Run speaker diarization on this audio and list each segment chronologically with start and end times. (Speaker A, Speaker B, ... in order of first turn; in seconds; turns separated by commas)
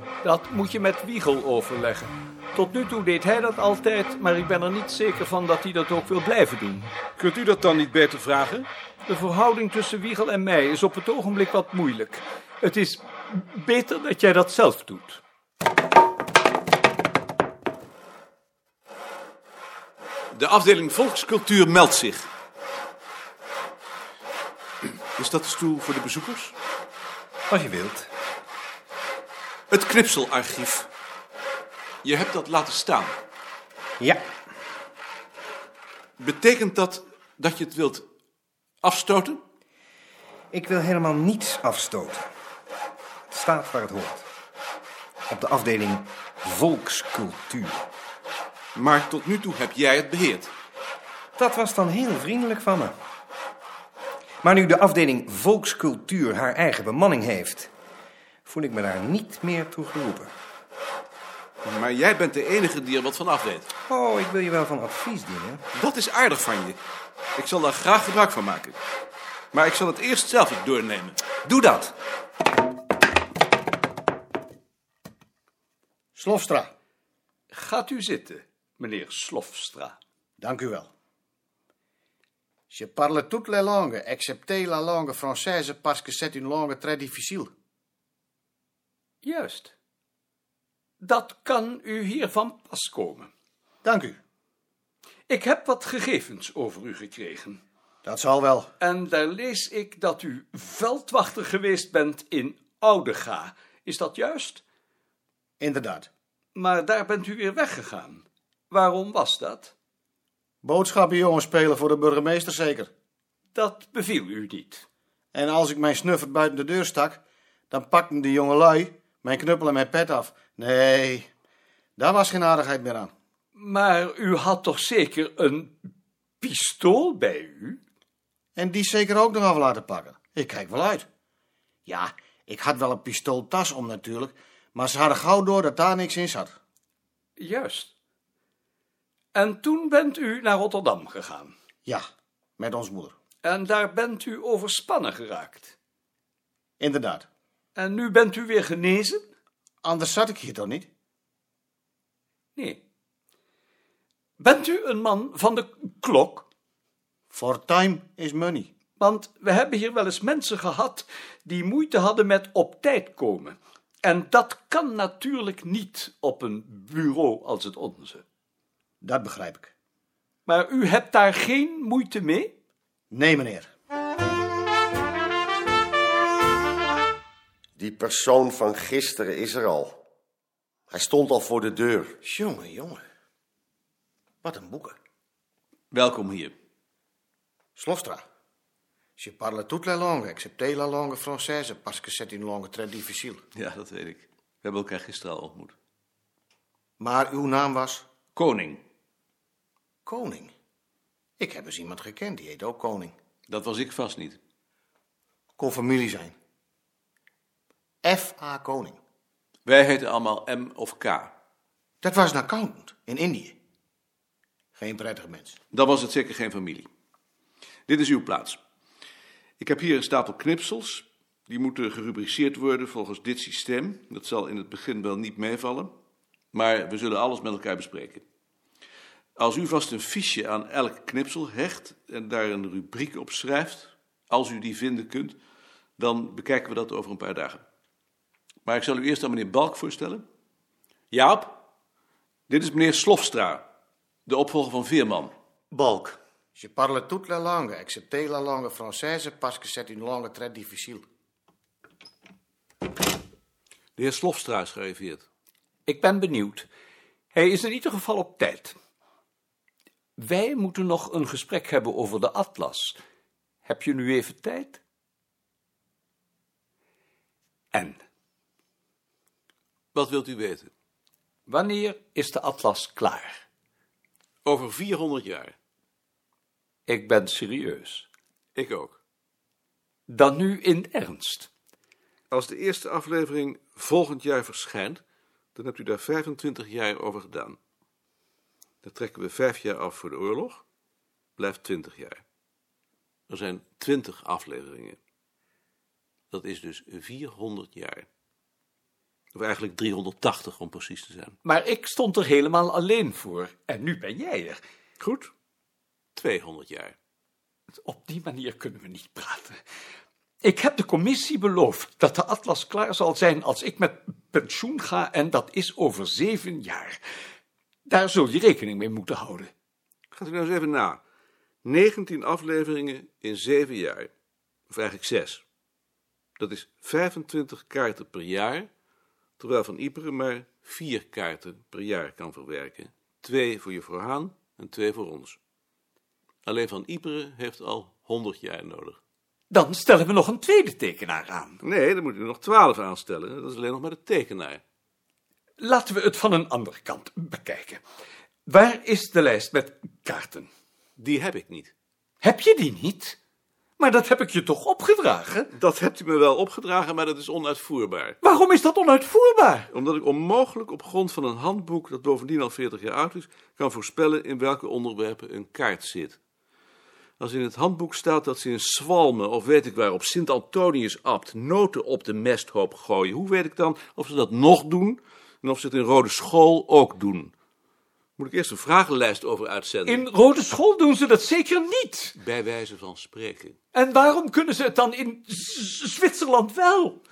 Speaker A: 0.2-6.9, Speaker B: 7.2-8.7, Speaker A: 9.0-15.2, Speaker B: 20.3-22.3, Speaker B: 25.2-26.5, Speaker C: 27.5-28.1, Speaker B: 29.7-30.9, Speaker B: 32.0-33.2, Speaker B: 36.2-38.0, Speaker B: 38.8-39.4, Speaker C: 40.5-42.3, Speaker C: 43.3-44.2, Speaker C: 45.3-47.8, Speaker B: 48.7-50.5, Speaker C: 51.4-52.9, Speaker C: 54.4-57.7, Speaker C: 58.5-60.3, Speaker B: 61.6-63.7, Speaker C: 63.9-65.6, Speaker B: 65.7-66.8, Speaker B: 67.4-68.8, Speaker B: 69.5-71.2, Speaker D: 76.1-76.7, Speaker A: 77.5-80.0, Speaker D: 80.4-80.9, Speaker D: 82.7-87.5, Speaker A: 89.2-89.7, Speaker A: 91.0-93.3, Speaker D: 93.8-94.2, Speaker A: 95.3-97.6, Speaker D: 98.0-98.7, Speaker A: 98.8-104.6, Speaker D: 105.6-106.1, Speaker A: 106.5-109.7, Speaker D: 110.6-112.9, Speaker A: 113.5-114.8, Speaker D: 115.3-121.3, Speaker D: 122.0-123.1, Speaker A: 123.5-125.8, Speaker A: 126.4-127.8, Speaker D: 128.6-131.1, Speaker D: 131.8-136.5, Speaker A: 137.4-137.9, Speaker A: 139.3-141.5, Speaker D: 142.6-143.1, Speaker A: 143.4-145.7, Speaker D: 146.8-147.3, Speaker A: 147.8-149.2, Speaker D: 149.8-150.9, Speaker A: 152.6-152.8, Speaker A: 154.4-156.4, Speaker D: 157.3-158.7, Speaker A: 159.0-168.2, Speaker D: 169.0-169.7, Speaker A: 170.4-172.5, Speaker D: 173.1-173.7, Speaker E: 177.8-180.0, Speaker E: 180.9-182.2, Speaker D: 182.2-183.0, Speaker D: 184.4-185.0, Speaker B: 185.9-186.5, Speaker D: 187.8-188.2, Speaker D: 189.2-193.4, Speaker B: 193.6-195.7, Speaker D: 197.0-198.1, Speaker B: 198.3-198.8, Speaker D: 200.1-200.5, Speaker D: 201.4-203.1, Speaker B: 203.5-204.4, Speaker D: 205.6-206.3, Speaker D: 208.0-209.0, Speaker B: 209.7-211.3, Speaker D: 212.0-213.6, Speaker D: 214.8-215.6, Speaker B: 215.7-216.9, Speaker B: 217.9-218.6, Speaker B: 219.6-225.9, Speaker B: 226.5-228.2, Speaker B: 229.4-235.4, Speaker B: 236.0-237.6, Speaker B: 238.7-240.2, Speaker B: 241.1-241.6, Speaker B: 242.5-243.7, Speaker B: 244.3-245.3, Speaker A: 245.7-246.2, Speaker D: 246.6-251.0, Speaker B: 254.0-255.2, Speaker A: 255.9-256.7, Speaker A: 257.3-258.8, Speaker A: 260.2-263.0, Speaker A: 263.6-264.8, Speaker A: 267.7-268.0, Speaker B: 269.9-270.7, Speaker A: 271.5-273.4, Speaker B: 274.4-275.5, Speaker A: 276.9-278.1, Speaker B: 278.6-279.0, Speaker A: 280.1-281.5, Speaker B: 282.3-285.0, Speaker B: 285.6-287.6, Speaker B: 288.8-290.6, Speaker B: 291.4-292.2, Speaker B: 293.3-295.0, Speaker B: 296.3-298.1, Speaker B: 299.3-301.4, Speaker A: 301.4-304.6, Speaker B: 305.0-305.3, Speaker B: 306.1-306.9, Speaker A: 307.8-309.6, Speaker A: 310.4-317.0, Speaker A: 317.9-319.5, Speaker B: 320.1-321.0, Speaker B: 321.6-324.1, Speaker B: 324.7-325.4, Speaker B: 326.4-328.7, Speaker B: 329.4-335.4, Speaker B: 336.4-339.0, Speaker A: 339.5-341.6, Speaker B: 341.6-344.6, Speaker A: 345.6-347.8, Speaker A: 348.4-350.5, Speaker B: 351.0-351.7, Speaker A: 352.2-353.2, Speaker A: 353.8-355.5, Speaker B: 355.5-358.2, Speaker A: 358.2-359.7, Speaker B: 359.7-366.2, Speaker B: 367.2-377.3, Speaker B: 378.2-380.0, Speaker A: 379.9-382.1, Speaker B: 382.2-383.6, Speaker A: 383.7-387.0